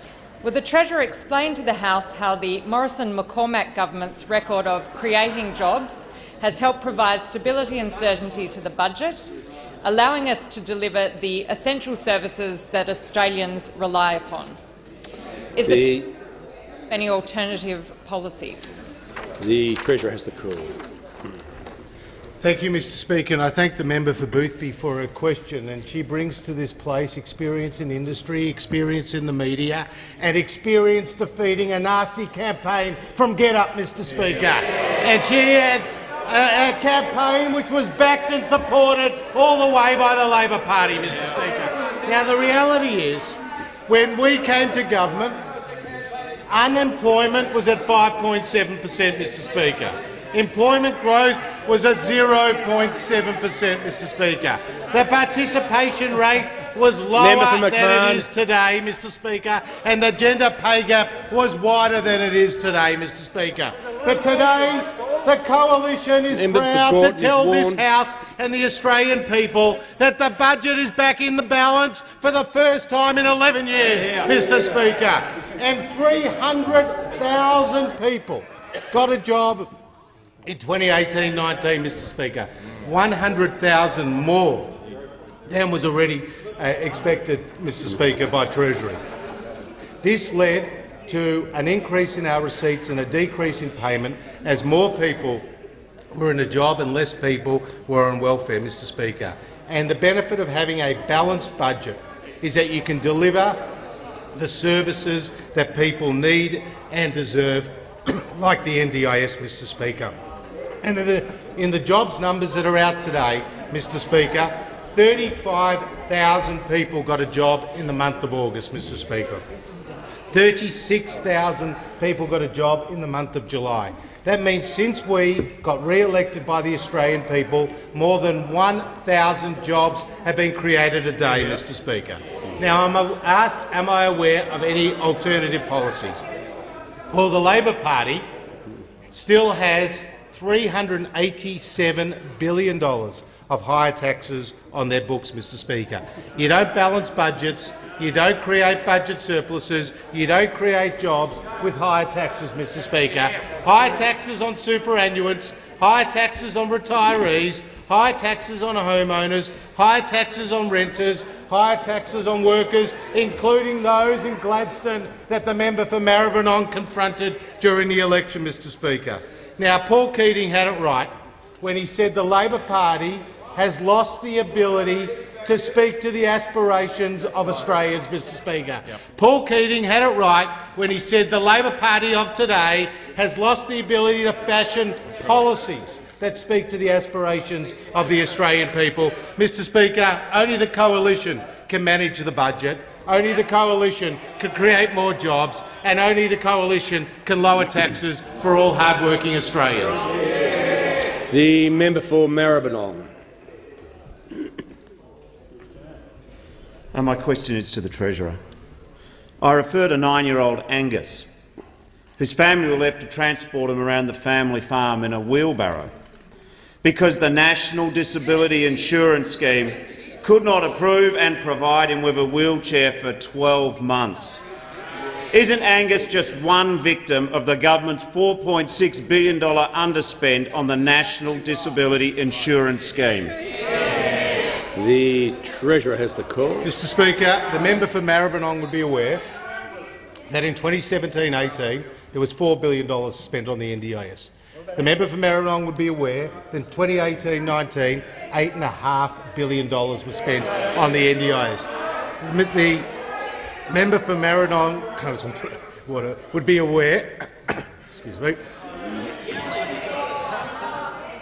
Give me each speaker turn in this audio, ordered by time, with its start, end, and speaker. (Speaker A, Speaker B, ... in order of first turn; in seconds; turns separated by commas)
Speaker A: 0.4-9.3, Speaker A: 9.8-14.6, Speaker A: 15.6-16.0, Speaker B: 15.6-16.1, Speaker A: 16.9-18.8, Speaker B: 19.4-20.8, Speaker C: 22.4-45.4, Speaker C: 46.5-79.7, Speaker B: 57.2-58.3, Speaker B: 66.3-67.8, Speaker C: 80.4-84.8, Speaker C: 85.5-89.0, Speaker C: 90.0-95.4, Speaker C: 96.1-103.6, Speaker C: 104.3-110.1, Speaker C: 110.8-119.4, Speaker C: 120.3-136.2, Speaker C: 137.1-138.2, Speaker C: 139.1-200.0, Speaker B: 201.3-203.1, Speaker D: 206.9-208.4, Speaker D: 209.4-211.3, Speaker D: 212.2-215.9, Speaker D: 216.8-224.4, Speaker D: 225.3-233.3, Speaker B: 234.8-236.7, Speaker C: 236.6-239.2, Speaker C: 240.3-251.7, Speaker C: 252.2-252.9, Speaker C: 253.7-258.4